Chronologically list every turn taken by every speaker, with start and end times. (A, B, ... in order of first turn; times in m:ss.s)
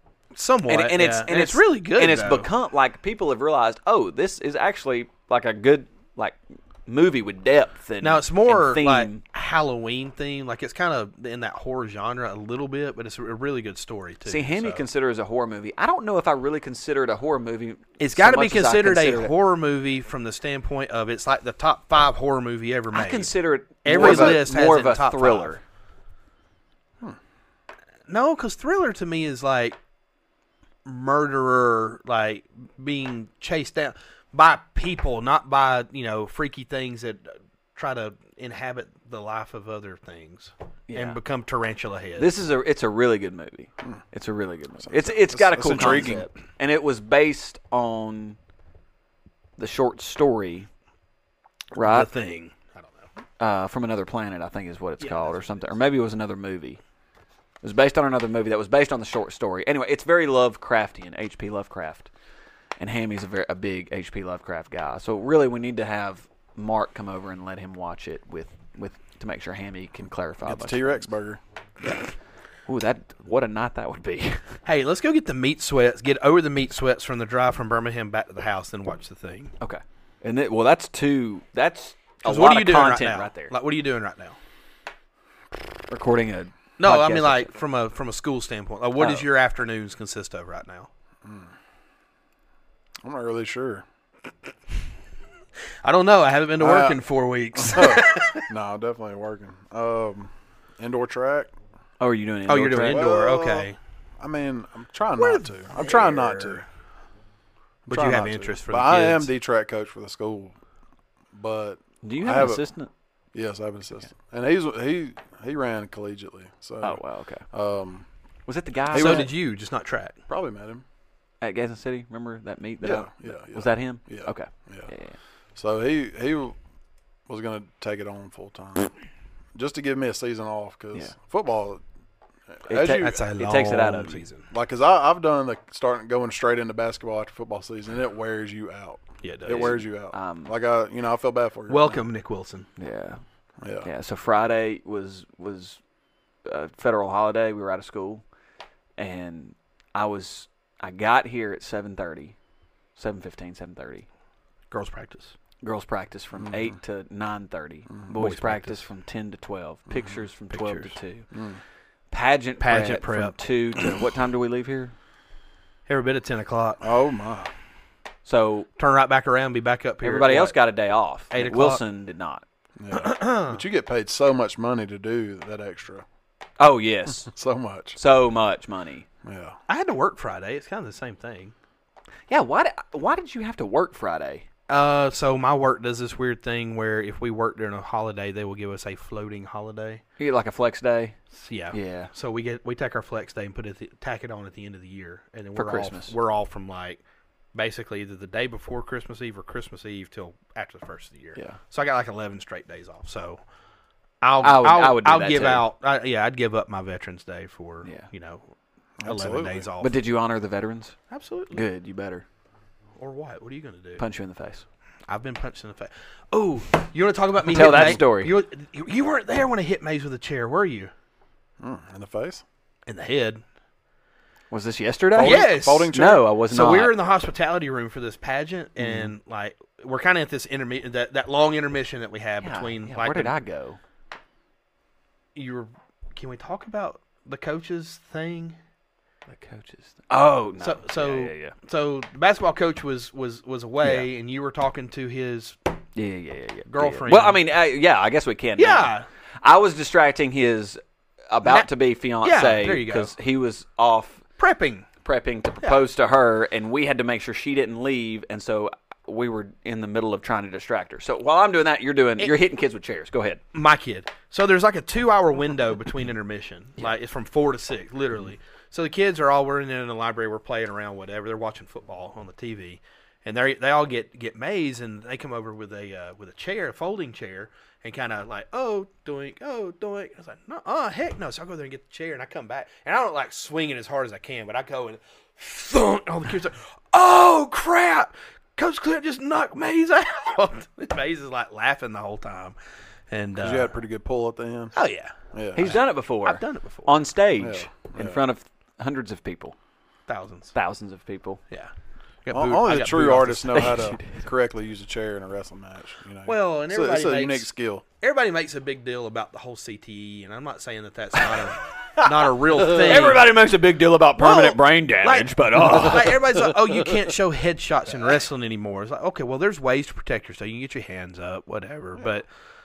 0:00.3-0:02.5 A
0:00.7-0:09.2 B
0:08.0-0:14.8 A
0:14.3-0:19.3 B
0:18.0-0:23.3 A
0:22.9-0:25.6 B
0:23.8-0:25.6 A
0:23.9-0:24.4 C
0:28.1-0:29.8 A
0:30.8-0:42.3 A
0:40.9-0:41.2 B
0:42.2-0:48.4 B
0:44.8-0:46.3 C
0:45.7-0:46.2 A
0:49.6-0:50.7 B
0:51.7-0:52.1 B
0:51.8-0:53.1 A
0:53.4-0:56.8 B
0:55.0-0:55.8 A
0:57.6-1:02.1 B
1:02.8-1:11.1 B
1:10.4-1:11.4 C
1:12.7-1:14.4 B
1:14.6-1:19.5 A
1:19.6-1:23.5 B
1:22.2-1:24.4 A
1:25.9-1:27.5 B
1:26.8-1:30.9 A
1:29.0-1:29.2 B
1:31.2-1:31.5 C
1:33.0-1:33.8 C
1:35.8-1:38.4 A
1:36.6-1:37.0 C
1:37.5-1:41.5 C
1:42.0-1:43.0 B
1:42.5-1:43.8 A
1:42.8-1:46.6 C
1:45.2-1:46.6 A
1:47.9-1:50.6 C
1:47.9-1:49.3 A
1:51.3-1:52.6 C
1:52.0-1:52.9 B
1:53.3-1:58.0 C
1:56.8-1:57.4 B
1:58.4-1:59.3 B
1:58.9-1:59.3 C
1:58.9-2:00.2 A
2:00.3-2:00.8 C
2:01.4-2:05.2 B
2:02.8-2:04.9 C
2:05.6-2:06.6 C
2:07.3-2:08.9 C
2:09.5-2:11.8 C
2:12.5-2:13.2 C
2:12.7-2:14.2 B
2:12.8-2:14.5 A
2:14.5-2:21.9 C
2:19.2-2:19.8 A
2:19.5-2:20.5 B
2:21.7-2:22.7 A
2:22.8-2:23.2 B
2:23.6-2:23.9 C
2:23.8-2:25.8 B
2:26.4-2:28.2 B
2:29.0-2:32.4 B
2:33.0-2:34.1 B
2:34.7-2:35.3 A
2:35.6-2:41.3 B
2:36.4-2:36.7 C
2:38.2-2:38.8 A
2:40.5-2:41.0 A
2:41.3-2:41.6 C
2:42.1-2:44.9 B
2:42.6-2:43.4 A
2:45.9-2:46.8 A
2:46.8-2:47.5 C
2:48.2-2:48.7 B
2:48.8-2:50.6 A
2:50.0-2:52.4 B
2:51.3-2:51.8 A
2:52.8-2:56.0 C
2:52.9-2:53.6 A
2:56.6-2:57.3 B
2:57.2-2:58.0 C
2:58.0-2:59.1 B
2:59.2-2:59.6 C
2:59.7-3:01.5 A
3:02.3-3:04.4 B
3:04.7-3:10.0 A
3:10.2-3:11.2 B
3:11.4-3:17.0 A
3:11.7-3:12.1 B
3:15.5-3:16.1 B
3:17.5-3:23.4 A
3:24.2-3:28.5 A
3:24.4-3:25.6 B
3:29.0-3:29.7 C
3:29.0-3:29.9 A
3:29.8-3:31.0 B
3:31.1-3:31.6 A
3:31.5-3:32.2 B
3:33.0-3:34.0 A
3:34.0-3:34.6 B
3:35.1-3:40.9 A
3:37.5-3:38.4 B
3:41.6-3:42.4 C
3:42.8-3:43.4 A
3:44.5-3:46.9 B
3:45.1-3:46.2 C
3:45.2-3:53.3 A
3:48.8-3:49.1 B
3:52.4-3:53.8 B
3:55.3-3:58.6 A
3:59.3-4:01.5 B
4:00.6-4:05.6 A
4:03.8-4:04.1 B
4:06.0-4:14.2 B
4:06.7-4:07.4 A
4:08.6-4:09.1 A
4:11.4-4:11.7 A
4:12.2-4:13.1 A
4:14.4-4:14.9 A
4:15.0-4:23.4 B
4:23.5-4:52.6 A
4:53.1-4:53.7 A
4:53.4-4:54.7 C
4:54.7-4:56.9 A
4:55.3-4:55.7 C
4:55.6-4:59.6 B
4:57.4-4:58.2 C
5:00.1-5:00.5 A
5:00.5-5:01.4 B
5:02.2-5:03.8 A
5:02.3-5:07.8 C
5:03.5-5:04.2 B
5:06.2-5:07.5 A
5:08.0-5:13.3 A
5:11.7-5:16.2 B
5:14.2-5:22.2 A